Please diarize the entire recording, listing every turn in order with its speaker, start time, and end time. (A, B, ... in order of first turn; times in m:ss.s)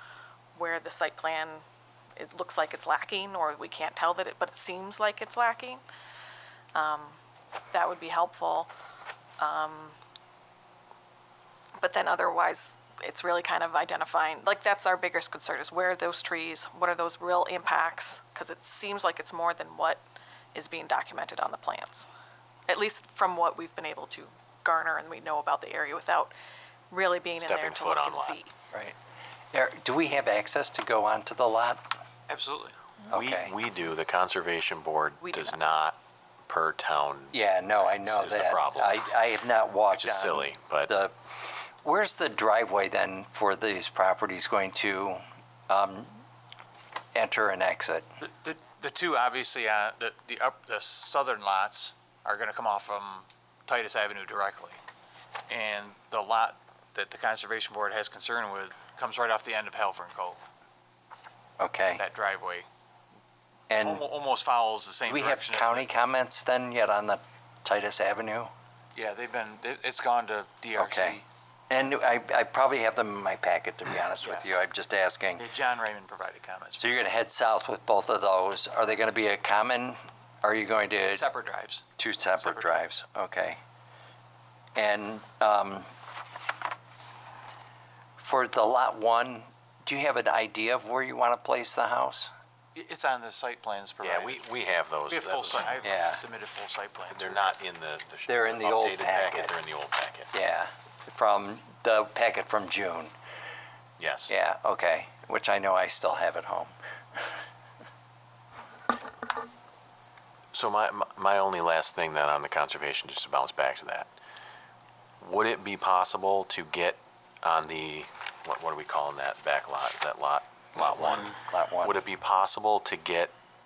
0:00.5-0:01.6 A
0:02.2-0:05.8 A
0:06.7-0:07.2 A
0:07.7-0:08.7 A
0:09.4-0:10.0 A
0:11.8-0:20.0 A
0:20.5-0:22.1 A
0:22.7-0:26.3 A
0:26.9-0:28.5 A
0:27.4-0:28.4 B
0:29.5-0:31.8 C
0:32.3-0:32.8 D
0:33.1-0:33.5 C
0:33.1-0:39.1 B
0:35.2-0:35.6 A
0:37.3-0:46.1 C
0:39.9-0:40.9 B
0:47.1-0:48.1 C
0:48.2-0:54.8 D
0:55.5-1:00.4 D
1:01.6-1:02.0 C
1:02.0-1:02.6 D
1:03.7-1:04.0 C
1:03.7-1:05.9 D
1:05.1-1:08.5 C
1:08.9-1:11.2 D
1:10.8-1:11.2 C
1:11.7-1:15.5 C
1:14.2-1:14.6 D
1:15.4-1:17.0 D
1:16.8-1:21.2 C
1:21.1-1:21.8 D
1:22.0-1:23.6 C
1:22.4-1:22.8 D
1:24.8-1:25.9 C
1:28.2-1:32.3 C
1:32.7-1:34.4 D
1:34.0-1:35.8 B
1:35.1-1:37.5 D
1:35.8-1:36.2 C
1:37.1-1:40.3 B
1:38.3-1:39.5 C
1:40.3-1:43.1 C
1:44.0-1:44.3 B
1:44.3-1:46.7 C
1:50.5-1:54.1 B
1:55.2-2:03.3 B
2:01.5-2:02.0 C